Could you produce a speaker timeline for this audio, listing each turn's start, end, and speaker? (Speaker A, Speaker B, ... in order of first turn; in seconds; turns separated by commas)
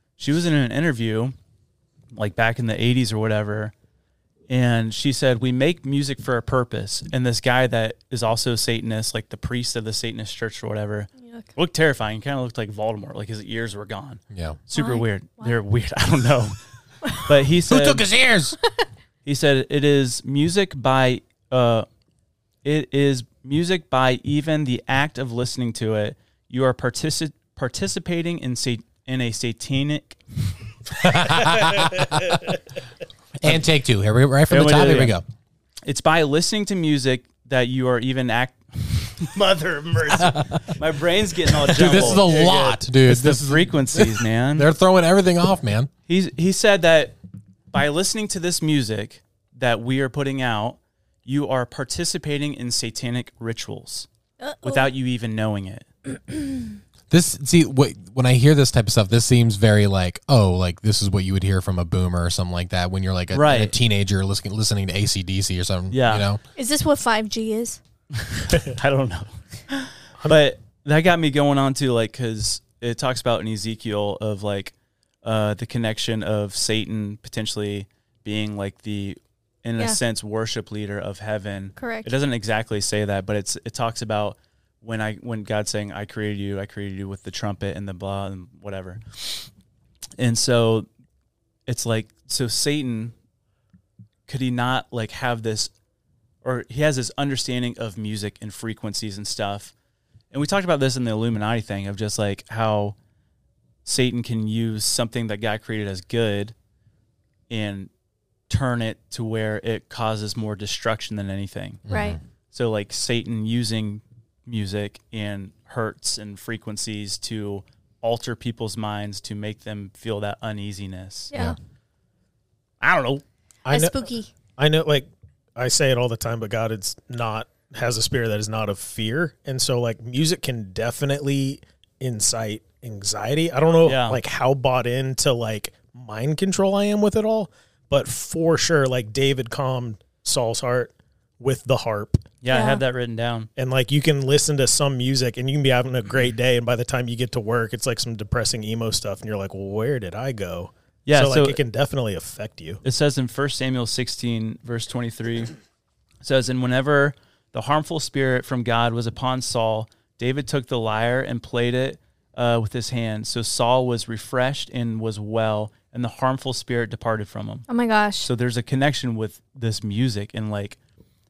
Speaker A: 0.2-1.4, Speaker A: 2.1-3.7, Speaker A: 4.5-16.6, Speaker B: 11.2-11.5, Speaker C: 14.3-14.6, Speaker B: 14.7-15.5, Speaker A: 17.2-18.1, Speaker C: 17.6-18.6, Speaker A: 19.2-21.9, Speaker A: 22.6-30.2, Speaker C: 31.0-32.5, Speaker C: 33.4-35.2, Speaker A: 34.5-35.2, Speaker A: 35.9-44.7, Speaker C: 40.1-40.6, Speaker C: 41.7-45.9, Speaker D: 42.0-42.4, Speaker A: 46.1-47.1, Speaker A: 47.7-54.1, Speaker B: 54.4-54.9, Speaker A: 54.6-55.9, Speaker B: 56.3-56.7, Speaker C: 57.1-66.4, Speaker A: 63.3-63.7, Speaker A: 65.9-66.3, Speaker B: 66.6-67.8, Speaker A: 68.1-89.5, Speaker B: 81.8-82.1, Speaker A: 90.2-90.9, Speaker A: 91.7-93.1, Speaker A: 94.3-95.7, Speaker A: 96.4-99.7, Speaker A: 100.3-103.0, Speaker A: 103.8-106.5, Speaker A: 107.5-107.9, Speaker A: 108.5-111.8, Speaker C: 111.9-112.2, Speaker B: 111.9-112.2, Speaker A: 112.5-121.3, Speaker A: 122.8-123.2, Speaker D: 123.7-124.0, Speaker B: 123.7-124.3, Speaker D: 124.6-142.2, Speaker A: 133.8-134.2, Speaker A: 142.4-143.5, Speaker B: 142.5-142.8, Speaker D: 143.6-152.8, Speaker A: 151.1-151.6, Speaker A: 152.8-155.5, Speaker A: 156.2-167.7, Speaker B: 167.7-168.3, Speaker A: 168.2-170.8